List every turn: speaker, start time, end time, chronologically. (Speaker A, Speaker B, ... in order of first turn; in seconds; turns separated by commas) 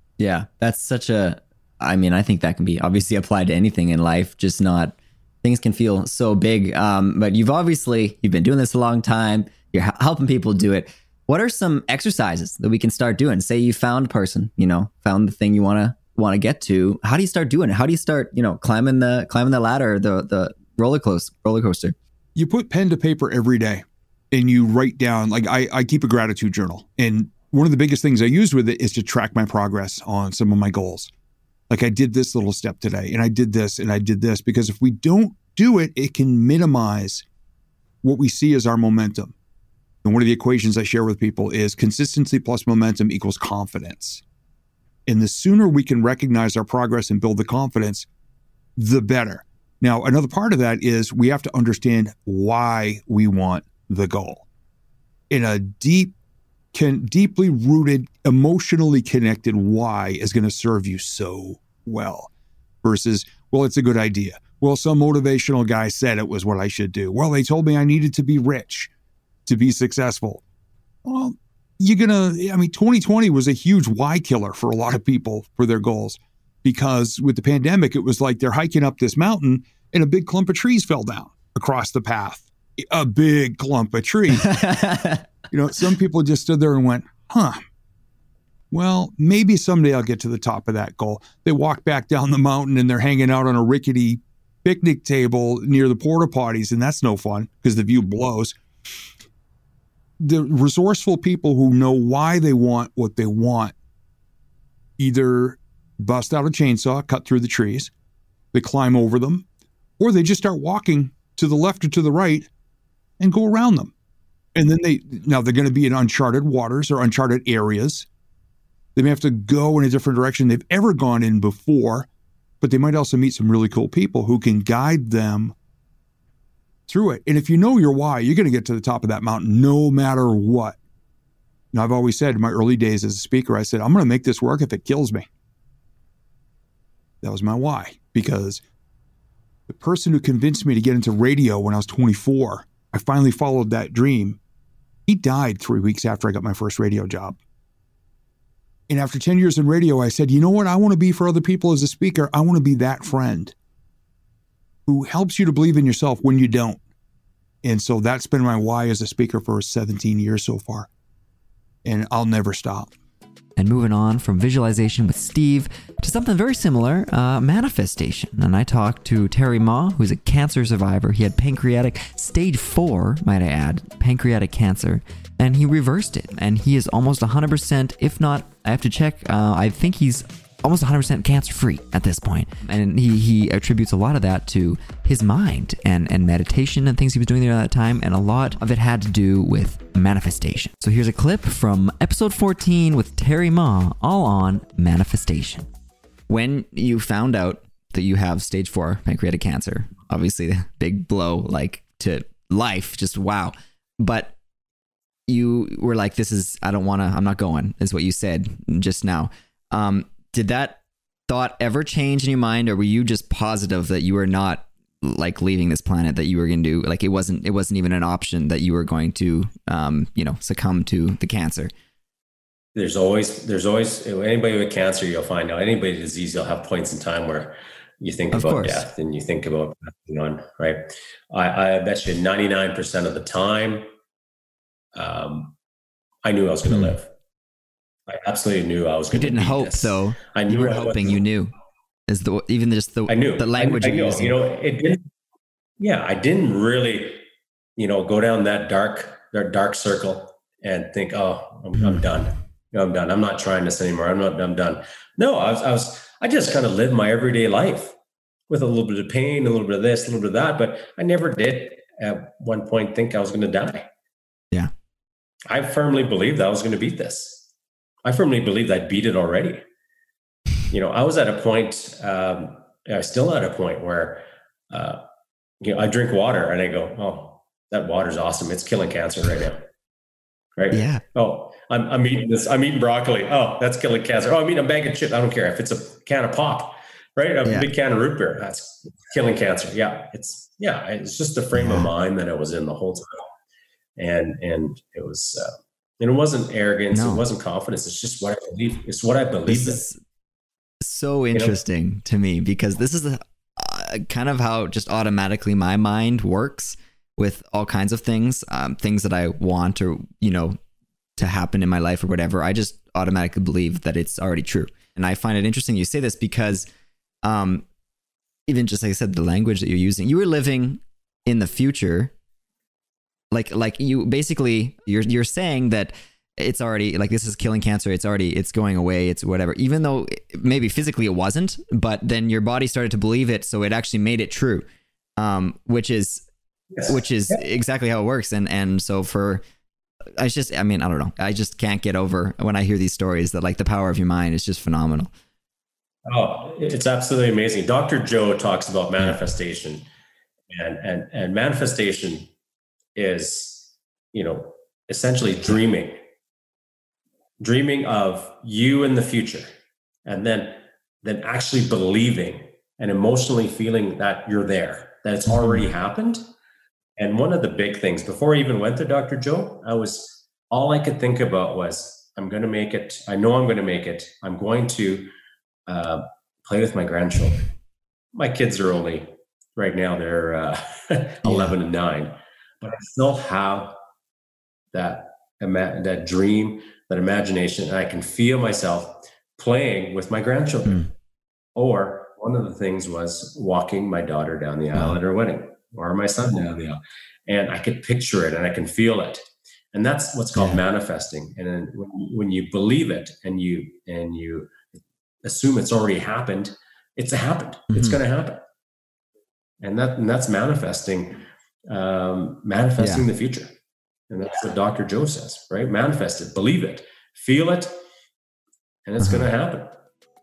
Speaker A: 0.2-21.9, Speaker B: 22.4-31.1, Speaker B: 31.7-37.2, Speaker B: 38.0-39.4, Speaker B: 40.0-44.2, Speaker B: 45.1-48.1, Speaker B: 48.8-54.5, Speaker B: 55.3-56.1, Speaker B: 56.7-62.3, Speaker B: 62.8-68.9, Speaker B: 69.5-70.4, Speaker B: 71.0-84.7, Speaker A: 84.5-85.2, Speaker B: 85.5-87.6, Speaker B: 88.7-98.6, Speaker B: 100.2-103.8, Speaker B: 105.0-107.9, Speaker B: 108.5-109.5, Speaker B: 110.0-112.5, Speaker B: 113.2-113.9, Speaker B: 114.5-118.1, Speaker B: 119.0-122.1, Speaker B: 122.6-125.5, Speaker B: 126.9-130.8, Speaker B: 131.7-135.3, Speaker B: 137.2-138.6, Speaker B: 139.7-144.4, Speaker B: 145.1-147.4, Speaker B: 148.9-153.5, Speaker B: 154.9-156.8, Speaker B: 157.6-160.9, Speaker B: 161.8-162.9, Speaker A: 163.6-195.7, Speaker A: 196.3-204.3, Speaker A: 205.3-221.7, Speaker C: 222.8-233.9, Speaker A: 228.3-228.8, Speaker C: 234.9-235.5, Speaker C: 236.2-237.1, Speaker A: 236.7-237.0, Speaker C: 238.1-241.2, Speaker A: 239.1-241.5, Speaker A: 242.1-244.4, Speaker C: 243.1-245.0, Speaker C: 245.8-247.2, Speaker C: 247.8-257.9, Speaker C: 258.5-263.9, Speaker C: 265.5-267.5, Speaker C: 268.1-269.6, Speaker C: 270.7-275.0, Speaker C: 275.6-279.6, Speaker C: 280.6-293.2, Speaker A: 280.7-281.0, Speaker A: 287.4-287.7, Speaker A: 291.6-291.9, Speaker C: 294.0-299.9, Speaker A: 296.9-297.2, Speaker A: 299.5-300.0, Speaker A: 300.8-310.6, Speaker A: 311.2-316.7, Speaker A: 317.2-317.6, Speaker A: 318.5-322.1, Speaker A: 323.3-334.7, Speaker A: 335.2-336.2, Speaker A: 336.9-339.4, Speaker A: 340.2-345.1, Speaker C: 346.1-349.9, Speaker C: 350.5-352.3, Speaker C: 352.9-356.0, Speaker C: 357.4-359.5, Speaker C: 360.1-366.2, Speaker C: 367.0-375.1, Speaker C: 375.7-377.4, Speaker C: 378.1-383.8, Speaker A: 381.2-381.6, Speaker C: 384.7-390.9, Speaker C: 391.6-404.5, Speaker A: 400.4-400.6, Speaker C: 405.2-408.4, Speaker A: 407.7-408.0, Speaker C: 409.6-413.5, Speaker A: 412.8-413.1, Speaker C: 414.1-417.7, Speaker C: 418.9-419.7, Speaker A: 419.0-419.3